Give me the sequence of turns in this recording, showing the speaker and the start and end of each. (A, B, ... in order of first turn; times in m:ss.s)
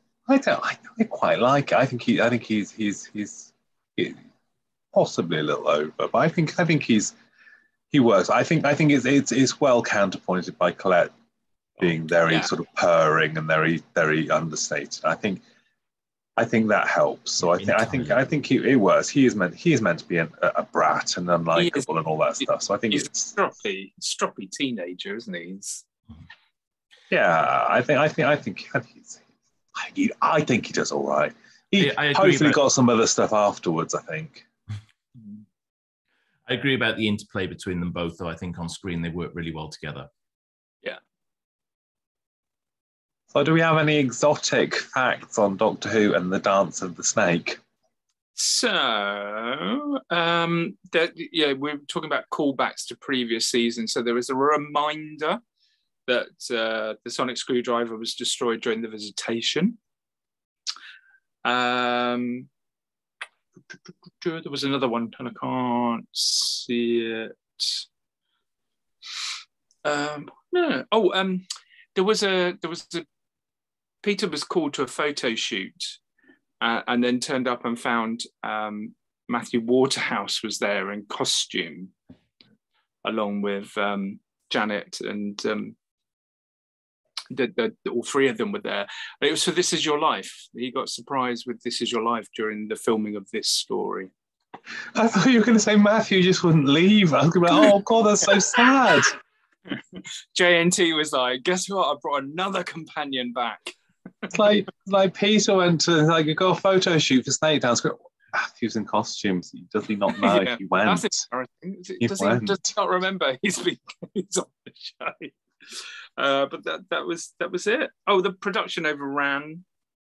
0:00.3-0:04.2 A
0:04.9-0:07.2 A
0:07.9-0:11.1 A
0:11.8-0:15.4 A
0:16.4-0:23.3 A
0:17.5-0:18.4 B
0:21.5-0:21.9 C
0:22.9-0:25.8 C
0:27.1-0:29.2 A
0:29.8-0:34.4 A
0:31.8-0:32.6 B
0:36.5-0:40.1 B
0:43.3-0:47.6 A
0:48.4-0:55.4 C
0:56.1-0:59.8 C
1:01.4-1:02.5 C
1:04.2-1:07.8 C
1:09.8-1:13.0 C
1:14.0-1:16.0 C
1:16.6-1:21.9 C
1:23.0-1:25.7 C
1:27.3-1:34.1 C
1:34.9-1:39.1 A
1:39.7-1:44.3 C
1:44.3-1:51.2 A
1:50.2-1:59.6 C
1:52.0-1:52.6 A